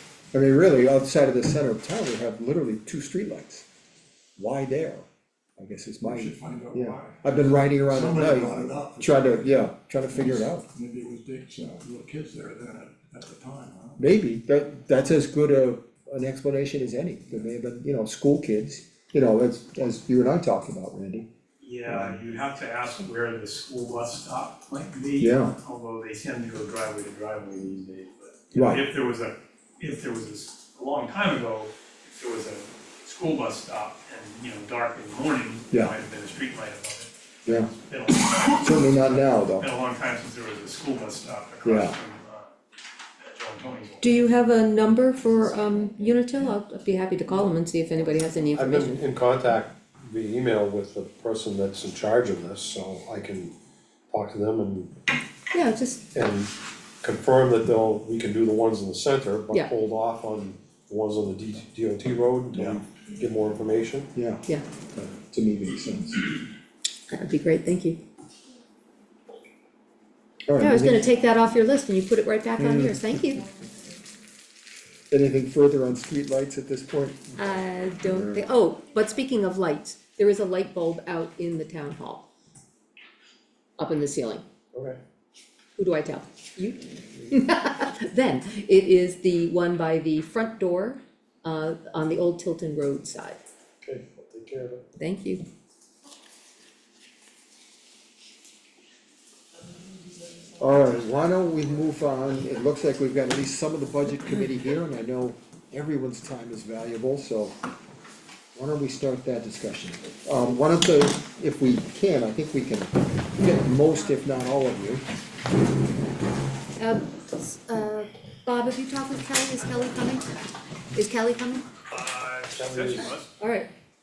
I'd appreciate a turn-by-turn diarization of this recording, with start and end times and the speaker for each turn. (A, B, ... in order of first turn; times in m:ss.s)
0:00.3-0:03.6 A
0:04.4-0:10.7 A
0:06.0-0:14.0 B
0:14.0-0:21.3 A
0:21.6-0:37.1 C
0:21.8-0:22.2 A
0:25.2-0:25.6 A
0:28.5-0:28.9 A
0:37.4-0:37.7 A
0:37.7-0:42.5 C
0:38.6-0:39.7 A
0:41.6-0:42.0 A
0:43.2-0:44.1 C
0:44.0-0:49.0 D
0:48.6-0:53.5 E
0:54.1-0:54.9 E
0:55.5-0:56.0 D
0:56.1-1:04.1 E
1:02.5-1:02.8 B
1:04.1-1:06.4 A
1:07.1-1:08.0 D
1:10.5-1:11.1 A
1:10.6-1:13.4 D
1:12.6-1:13.1 A
1:15.1-1:18.5 A
1:17.4-1:22.3 D
1:23.8-1:24.4 D
1:24.7-1:25.0 E
1:25.8-1:33.4 D
1:33.8-1:34.8 E
1:35.0-1:35.4 D
1:40.6-1:47.6 A
1:48.5-1:55.0 A
1:56.8-2:01.6 D
2:01.9-2:03.3 C
2:02.5-2:03.2 E
2:03.4-2:03.7 D